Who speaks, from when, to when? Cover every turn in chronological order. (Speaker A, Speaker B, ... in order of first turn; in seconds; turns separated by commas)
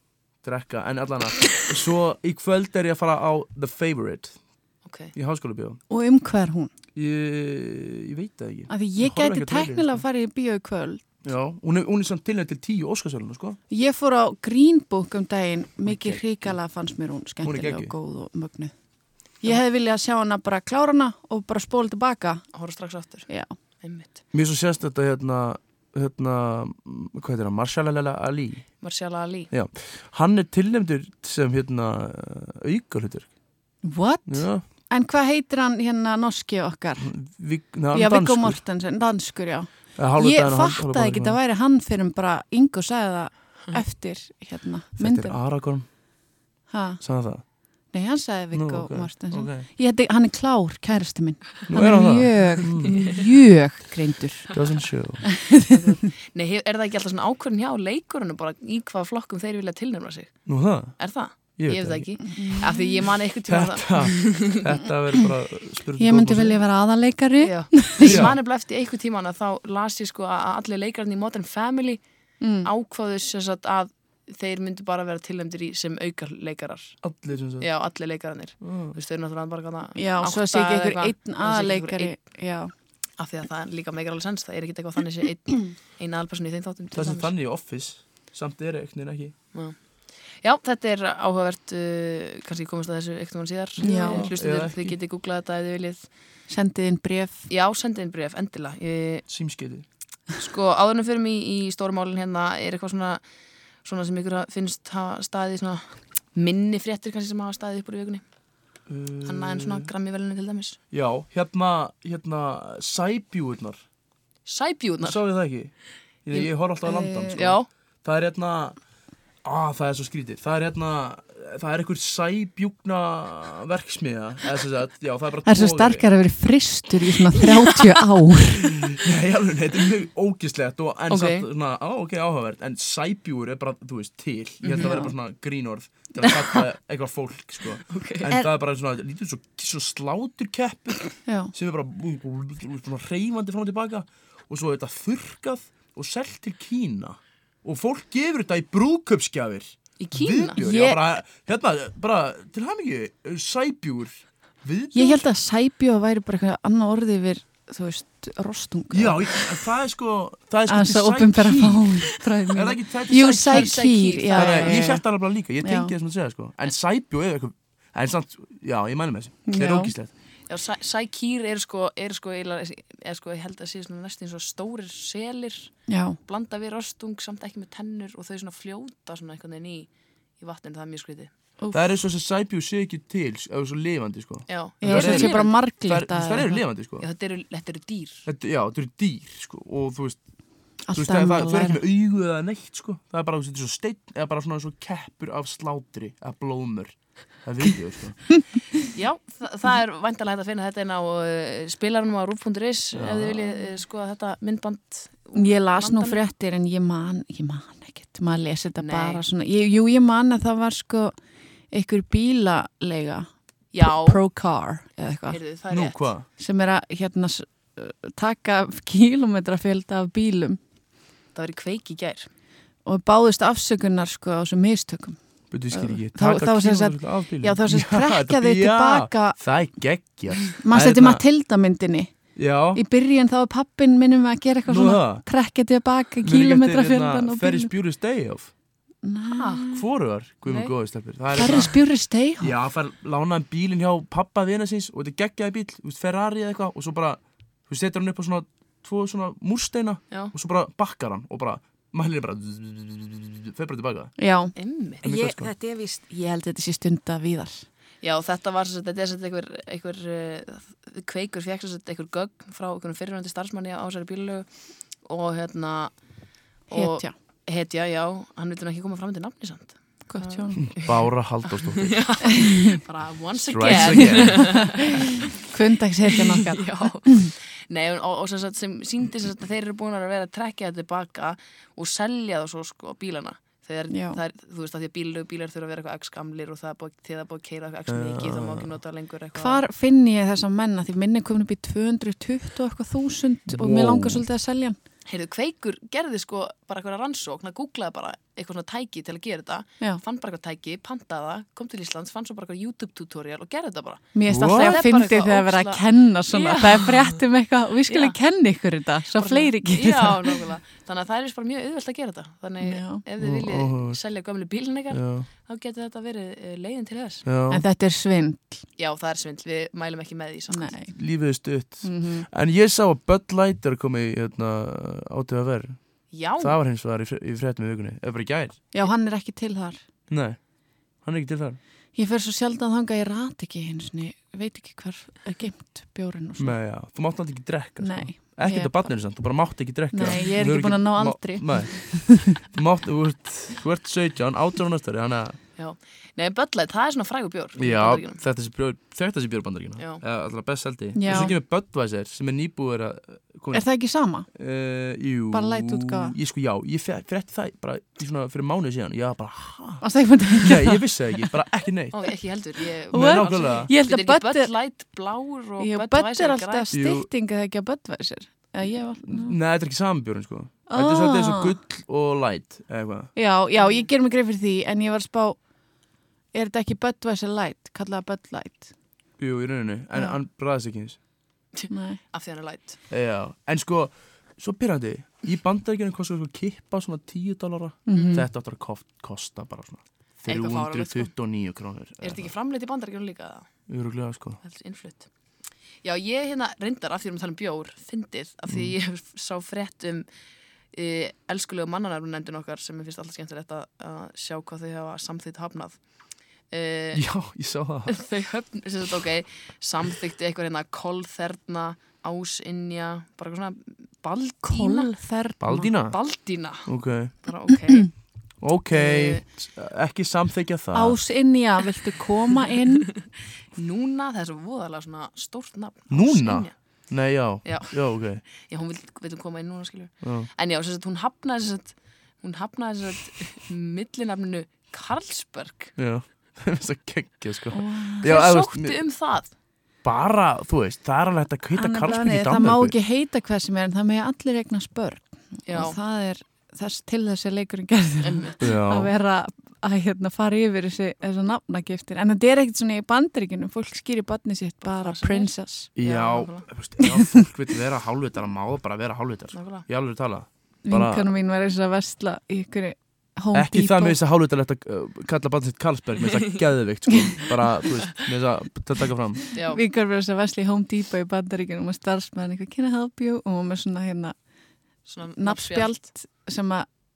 Speaker A: 0.4-4.4, Speaker B: 4.8-5.1, Speaker A: 5.2-5.8, Speaker C: 5.9-6.7, Speaker A: 7.0-10.0, Speaker C: 8.7-11.1, Speaker A: 11.2-13.6, Speaker C: 13.7-18.7, Speaker A: 15.9-16.6, Speaker A: 17.4-17.9, Speaker C: 19.4-22.4, Speaker B: 22.5-23.3, Speaker B: 23.8-24.2, Speaker A: 24.3-28.7, Speaker B: 28.8-29.5, Speaker A: 29.5-33.3, Speaker C: 33.8-37.1, Speaker A: 34.3-34.6, Speaker A: 37.0-38.6, Speaker C: 37.9-45.4, Speaker A: 40.0-41.4, Speaker A: 45.0-45.9, Speaker C: 46.7-47.0, Speaker A: 47.0-47.4, Speaker C: 47.9-54.5, Speaker A: 48.5-49.7, Speaker A: 51.7-53.0, Speaker A: 54.5-55.3, Speaker C: 55.3-56.0, Speaker B: 55.7-64.6, Speaker A: 60.5-61.0, Speaker A: 61.6-62.2, Speaker C: 62.2-63.1, Speaker A: 63.5-66.6, Speaker C: 66.0-68.3, Speaker B: 67.4-72.0, Speaker A: 68.0-68.4, Speaker C: 72.4-72.7, Speaker B: 72.6-77.0, Speaker A: 77.0-77.7, Speaker B: 77.6-82.2, Speaker A: 78.6-79.0, Speaker C: 80.0-82.7, Speaker B: 83.2-87.3, Speaker A: 86.9-89.3, Speaker B: 90.4-96.1, Speaker A: 93.8-95.0, Speaker C: 93.8-94.3, Speaker C: 96.5-97.5, Speaker B: 97.5-99.3, Speaker A: 99.3-99.8, Speaker B: 100.4-103.2, Speaker B: 103.8-108.2, Speaker A: 108.9-109.9, Speaker B: 109.2-110.8, Speaker A: 110.9-113.8, Speaker B: 114.5-115.2, Speaker A: 115.0-118.8, Speaker C: 116.9-117.4, Speaker B: 117.3-117.7, Speaker A: 119.4-126.1, Speaker C: 125.5-128.9, Speaker A: 128.6-155.2, Speaker B: 131.1-131.5, Speaker B: 134.6-135.1, Speaker C: 134.8-135.1, Speaker B: 136.2-136.6, Speaker B: 137.9-138.5, Speaker C: 141.3-141.5, Speaker B: 150.0-150.6, Speaker C: 150.6-151.0, Speaker C: 154.9-159.3, Speaker A: 158.9-170.1, Speaker C: 160.7-165.0, Speaker B: 163.5-164.9, Speaker C: 165.6-165.9, Speaker C: 169.5-169.9, Speaker B: 170.5-175.7, Speaker C: 175.9-176.2, Speaker B: 176.3-181.3, Speaker C: 181.6-182.0, Speaker A: 181.7-187.1, Speaker B: 184.5-185.6, Speaker C: 184.8-186.6, Speaker B: 187.0-188.2, Speaker A: 188.2-190.2, Speaker C: 190.9-191.8, Speaker A: 190.9-198.3, Speaker B: 198.9-206.2, Speaker A: 202.9-203.5, Speaker C: 205.4-211.2, Speaker B: 208.8-209.2, Speaker C: 211.7-215.4, Speaker B: 213.7-214.2, Speaker B: 215.3-216.0, Speaker A: 215.7-216.3, Speaker C: 216.4-220.6, Speaker B: 221.3-222.3, Speaker C: 222.9-225.2, Speaker A: 225.5-231.2, Speaker C: 225.7-229.4, Speaker C: 230.6-232.1, Speaker A: 232.4-232.8, Speaker C: 232.7-237.7, Speaker A: 234.7-235.2, Speaker A: 236.2-238.5, Speaker C: 239.0-239.9, Speaker B: 239.3-239.7, Speaker A: 239.7-241.8, Speaker B: 240.5-240.7, Speaker C: 241.4-242.6, Speaker A: 242.4-254.1, Speaker C: 254.2-257.7, Speaker B: 254.6-255.1, Speaker A: 255.0-255.5, Speaker B: 258.0-264.5, Speaker B: 265.1-265.9, Speaker B: 266.7-275.3, Speaker C: 266.7-267.1, Speaker C: 270.1-270.8, Speaker A: 270.6-272.0, Speaker A: 273.5-274.8, Speaker C: 273.7-274.5, Speaker C: 275.4-277.3, Speaker B: 276.1-289.6, Speaker C: 283.9-284.2, Speaker A: 287.9-288.7, Speaker C: 289.4-294.8, Speaker A: 293.5-294.2, Speaker B: 295.1-307.2, Speaker C: 304.1-310.5, Speaker A: 304.3-304.8, Speaker B: 307.9-308.2, Speaker B: 309.2-317.2, Speaker C: 312.6-313.0, Speaker A: 313.2-314.0, Speaker A: 314.9-315.3, Speaker A: 317.2-317.6, Speaker C: 317.5-318.6, Speaker B: 318.8-320.7, Speaker C: 320.5-320.9, Speaker A: 320.9-325.8, Speaker C: 321.8-322.3, Speaker B: 326.1-326.6, Speaker A: 326.4-328.6, Speaker C: 328.7-329.8, Speaker A: 330.1-330.4, Speaker A: 331.0-331.6, Speaker C: 331.9-336.6, Speaker A: 336.4-345.4, Speaker C: 337.8-338.9, Speaker C: 339.9-342.4, Speaker B: 345.6-348.2, Speaker A: 347.6-353.7, Speaker B: 349.8-350.0, Speaker C: 350.9-351.4, Speaker C: 353.5-354.3, Speaker A: 354.4-359.9, Speaker C: 355.3-356.2, Speaker C: 359.8-361.2, Speaker A: 360.4-362.0, Speaker B: 361.9-366.7, Speaker A: 362.9-363.7, Speaker C: 362.9-364.5, Speaker C: 365.6-369.4, Speaker A: 366.7-367.1, Speaker A: 369.1-373.1, Speaker C: 370.7-371.6, Speaker C: 373.1-375.4, Speaker B: 373.6-373.9, Speaker C: 376.3-378.7, Speaker A: 379.2-381.0, Speaker B: 381.6-382.8, Speaker C: 381.7-382.0, Speaker A: 382.9-392.3, Speaker C: 387.9-388.3, Speaker B: 387.9-388.2, Speaker B: 390.3-391.1, Speaker B: 392.0-393.5, Speaker A: 393.7-394.4, Speaker B: 394.4-395.1, Speaker B: 395.8-400.1, Speaker A: 398.5-398.7, Speaker B: 400.7-405.8, Speaker B: 406.5-407.0, Speaker A: 406.9-408.0, Speaker B: 407.9-414.9, Speaker C: 414.4-415.7, Speaker A: 415.4-416.0, Speaker B: 415.9-417.9, Speaker A: 416.6-417.1, Speaker A: 418.4-421.0, Speaker B: 418.7-419.2, Speaker C: 420.7-422.9, Speaker B: 423.6-426.6, Speaker A: 425.9-428.2, Speaker B: 427.4-435.8, Speaker A: 430.0-430.3, Speaker A: 435.8-438.8, Speaker C: 437.5-438.1, Speaker B: 438.0-439.3, Speaker A: 439.8-442.7, Speaker C: 441.5-455.7, Speaker B: 445.5-445.8, Speaker B: 448.0-448.4, Speaker A: 448.4-448.9, Speaker B: 454.6-456.5, Speaker A: 455.8-461.1, Speaker C: 456.8-457.3, Speaker B: 459.3-459.7, Speaker C: 460.6-464.0, Speaker A: 463.3-469.3, Speaker B: 469.4-469.6, Speaker C: 469.5-474.1, Speaker B: 474.9-475.8, Speaker C: 475.2-476.7